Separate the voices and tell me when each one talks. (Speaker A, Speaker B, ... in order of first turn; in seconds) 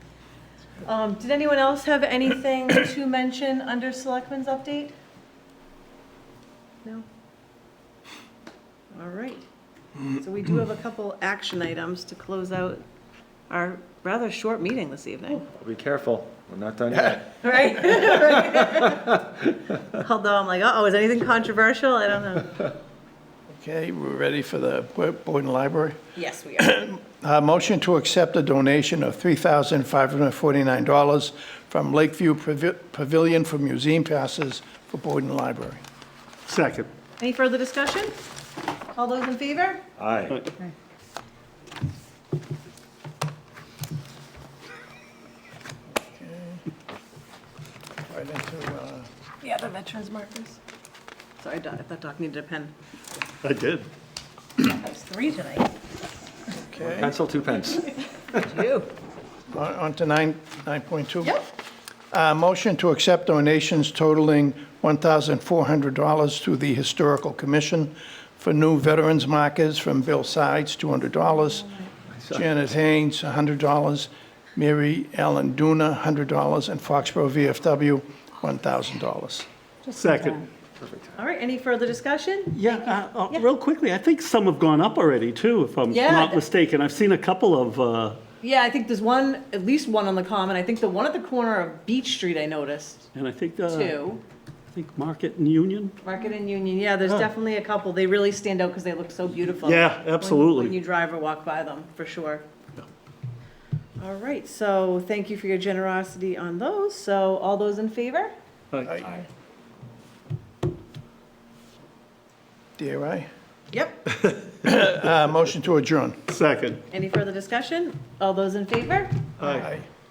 Speaker A: 0.8-4.9, 8.9-9.4, 10.1-12.8, 13.5-15.5, 17.4-19.3, 19.9-22.7, 26.1-26.9, 37.2-38.1, 39.0-39.8, 49.4-50.6, 51.4-52.7, 54.6-55.7, 58.3-58.9, 71.6-71.9, 81.2-82.6, 85.9-86.4, 88.4-93.1, 93.7-94.2, 96.0-102.4, 104.0-108.3, 113.7-114.0, 116.9-119.3
Speaker B: 15.5-17.4, 40.0-40.4, 56.8-58.0, 80.8-81.1
Speaker C: 23.5-26.0, 26.6-35.8, 46.1-46.6, 48.1-49.1, 56.6-57.1, 59.5-61.4, 62.1-71.7, 72.3-79.5, 108.8-109.1, 112.8-113.3, 114.5-116.2, 119.4-119.9
Speaker D: 36.5-36.9, 53.4-53.9, 79.9-80.5, 82.5-88.2, 93.1-94.0, 94.7-96.0, 99.6-100.8, 108.7-109.0, 114.2-114.5, 116.3-116.8, 119.4-119.7